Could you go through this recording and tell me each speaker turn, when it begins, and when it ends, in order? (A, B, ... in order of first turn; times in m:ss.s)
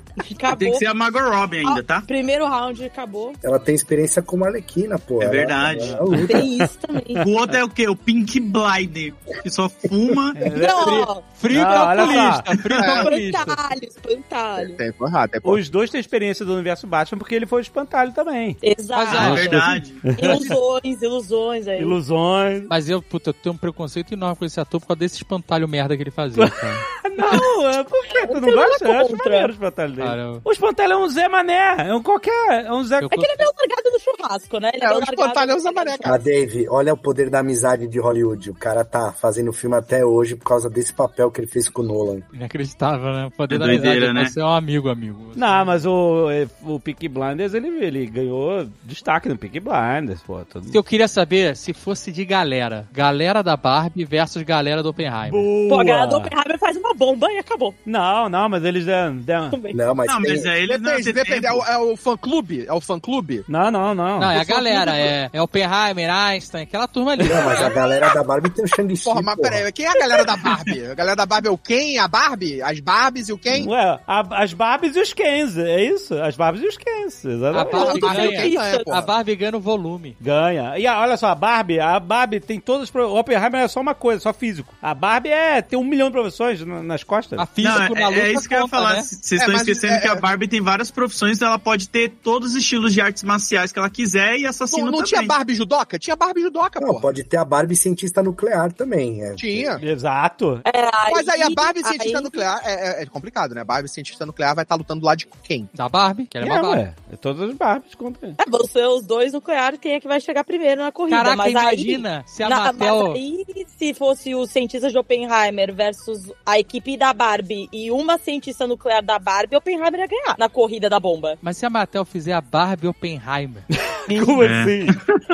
0:00.2-0:00.8 A
0:00.5-0:02.1 B
0:01.6-0:03.4 A
0:03.4-0:06.5 C
0:05.2-0:06.0 B
0:05.7-0:07.5 D
0:06.2-0:07.2 A
0:07.2-0:10.4 B
0:10.4-0:12.4 D
0:10.4-0:12.3 A
0:10.8-0:13.6 E
0:12.8-0:13.1 F
0:13.0-0:14.8 A
0:14.6-0:15.6 F
0:15.4-0:18.6 D
0:18.6-0:22.0 A
0:18.9-0:19.7 E
0:19.1-0:20.5 D
0:19.1-0:20.0 B
0:20.2-0:20.5 E
0:21.8-0:22.7 D
0:22.7-0:26.8 E
0:26.4-0:33.4 D
0:28.0-0:29.5 A
0:30.0-0:30.4 E
0:33.0-0:33.4 E
0:33.1-0:36.1 A
0:34.8-0:36.2 F
0:36.0-0:42.2 C
0:42.3-0:45.8 E
0:43.5-0:44.3 B
0:45.4-0:50.8 D
0:50.7-0:55.5 E
0:55.2-0:56.3 D
0:55.7-0:57.8 A
0:57.8-0:59.6 D
0:59.5-0:59.8 A
0:59.7-1:00.5 C
1:00.0-1:01.6 B
1:00.6-1:03.5 F
1:03.5-1:04.3 D
1:04.2-1:07.7 E
1:04.3-1:05.1 F
1:07.2-1:09.6 C
1:09.0-1:13.7 F
1:13.5-1:18.0 D
1:17.5-1:20.2 E
1:17.6-1:18.9 A
1:17.7-1:19.1 F
1:20.2-1:27.4 D
1:27.4-1:29.1 E
1:27.6-1:35.3 B
1:29.4-1:30.2 F
1:34.7-1:37.1 F
1:36.8-1:39.7 C
1:39.4-1:39.8 F
1:39.8-1:40.6 D
1:40.6-1:42.5 A
1:41.1-1:45.7 F
1:45.7-1:46.8 E
1:46.4-1:48.4 D
1:48.4-2:01.4 A
1:51.1-1:53.2 E
2:01.4-2:03.7 E
2:03.9-2:05.0 D
2:04.1-2:04.4 A
2:04.4-2:05.2 B